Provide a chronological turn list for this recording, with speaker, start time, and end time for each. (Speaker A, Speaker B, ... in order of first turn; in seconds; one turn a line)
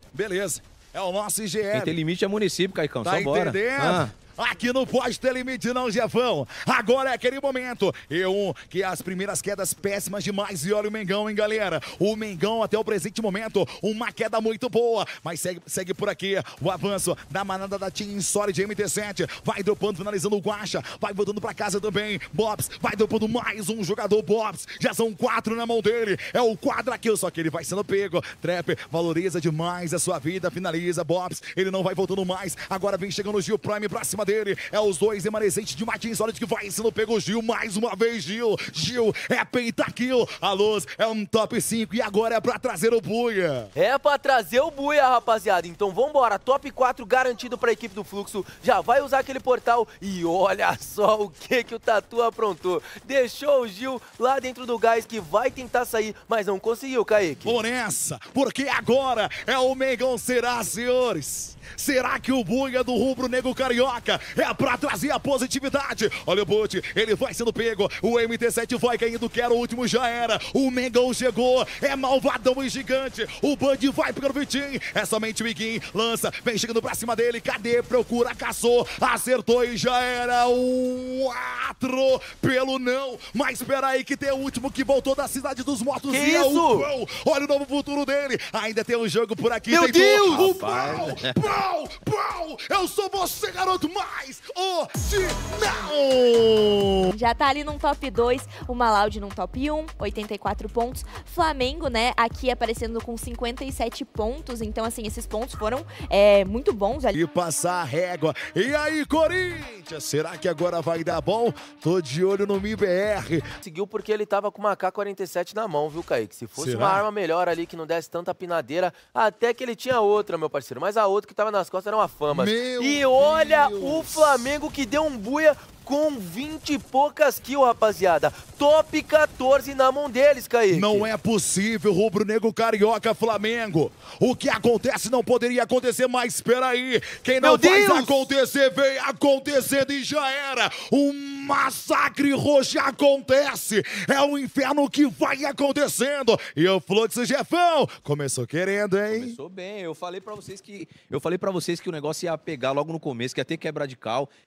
Speaker A: 0.1-2.0
Speaker B: 1.7-4.1
Speaker A: 3.0-43.7
Speaker C: 43.8-57.6
Speaker A: 57.5-97.1
Speaker C: 86.1-86.9
Speaker C: 89.7-90.6
Speaker B: 90.4-91.3
Speaker D: 97.1-107.2
Speaker A: 107.2-113.5
Speaker C: 113.6-131.1
Speaker A: 116.6-117.0
Speaker A: 122.3-124.5
Speaker A: 130.7-149.4
Speaker C: 137.4-138.2
Speaker B: 149.1-154.3